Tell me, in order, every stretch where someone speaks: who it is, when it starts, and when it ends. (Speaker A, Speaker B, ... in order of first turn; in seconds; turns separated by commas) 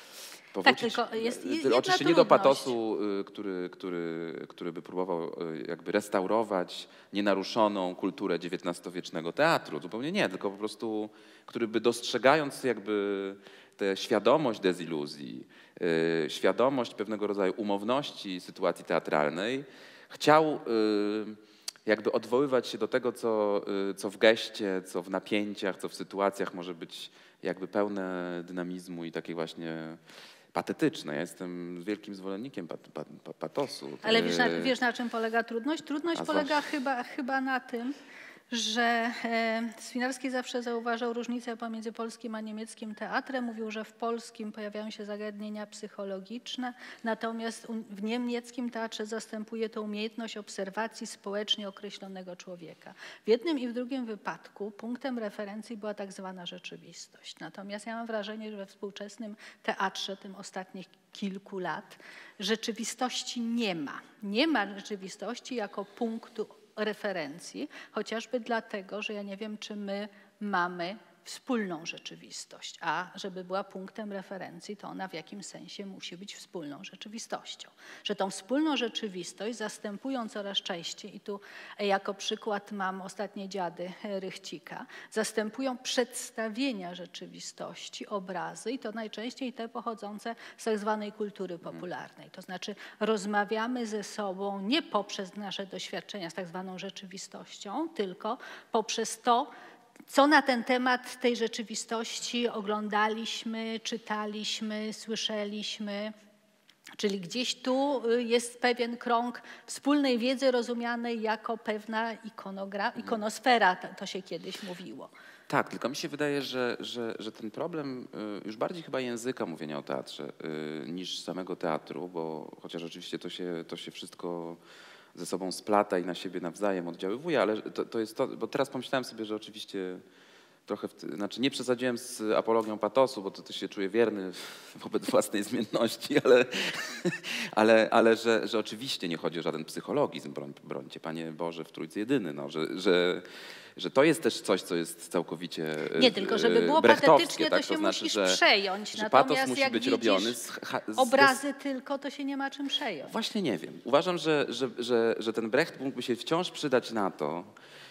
Speaker A: 0.5-30.0, Speaker B: 0.6-2.8, Speaker A: 30.5-34.7, Speaker B: 34.0-38.0, Speaker A: 36.1-36.6, Speaker B: 38.5-99.5, Speaker B: 100.1-106.1, Speaker B: 107.0-115.1, Speaker A: 115.5-124.6, Speaker A: 125.1-130.0, Speaker A: 130.7-143.2, Speaker A: 143.8-148.4, Speaker B: 146.0-150.4, Speaker A: 148.9-151.4, Speaker B: 151.0-153.1, Speaker A: 153.1-157.5